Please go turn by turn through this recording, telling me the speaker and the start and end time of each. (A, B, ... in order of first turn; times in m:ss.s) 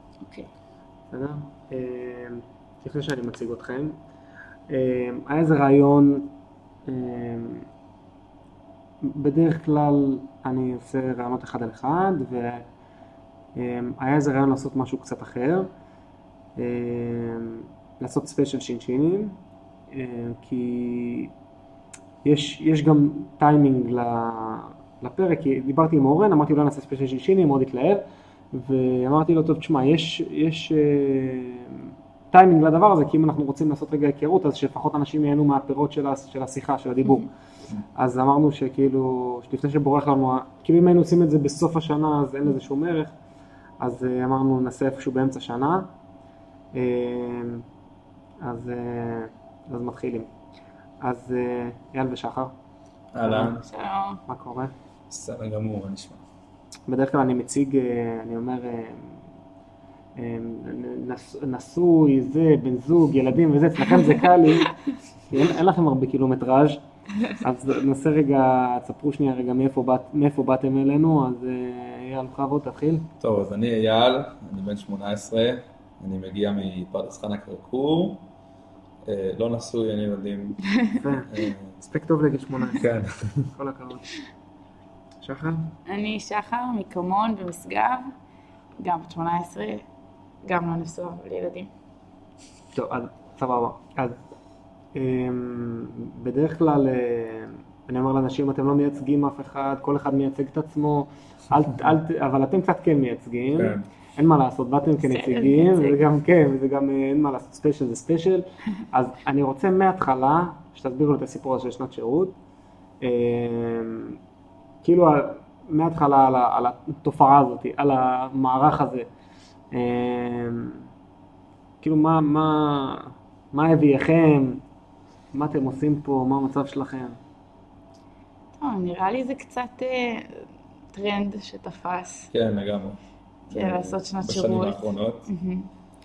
0:01.1-0:04.0 A
0:04.7-0:06.3 A
0:06.9-0:07.7 A
0:09.0-0:12.6 A
0:13.6-0:15.7 A
0:16.6-0:19.4 A
0:19.9-0:21.3 A
0:22.2-0:37.3 A
0:37.9-0:43.1 A
0:43.8-0:45.9 A
0:46.7-0:47.6 A
0:48.4-0:50.3 A
0:51.0-0:52.5 A
0:53.1-0:53.7 B
0:53.2-0:53.5 A
0:53.7-0:54.2 C
0:54.3-0:54.7 A
0:55.1-0:56.2 B
0:56.9-0:59.2 A
1:00.2-1:04.7 A
1:03.9-1:04.7 C
1:05.3-1:13.1 A
1:13.2-1:18.2 B
1:19.0-1:20.6 B
1:21.0-1:21.3 A
1:21.2-1:21.7 B
1:21.8-1:22.9 A
1:22.8-1:23.5 B
1:23.6-1:24.1 A
1:25.2-1:25.7 A
1:25.9-1:28.1 C
1:28.8-1:29.8 C
1:30.4-1:31.7 C
1:32.7-1:34.2 A
1:34.9-1:52.3 A
1:43.5-1:43.8 B
1:45.0-1:46.0 C
1:53.0-1:54.2 A
1:54.8-1:59.1 A
1:59.7-2:00.8 A
2:01.8-2:04.6 A
2:05.3-2:07.2 A
2:08.6-2:12.3 C
2:12.3-2:13.0 B
2:13.5-2:15.3 B
2:13.5-2:15.7 C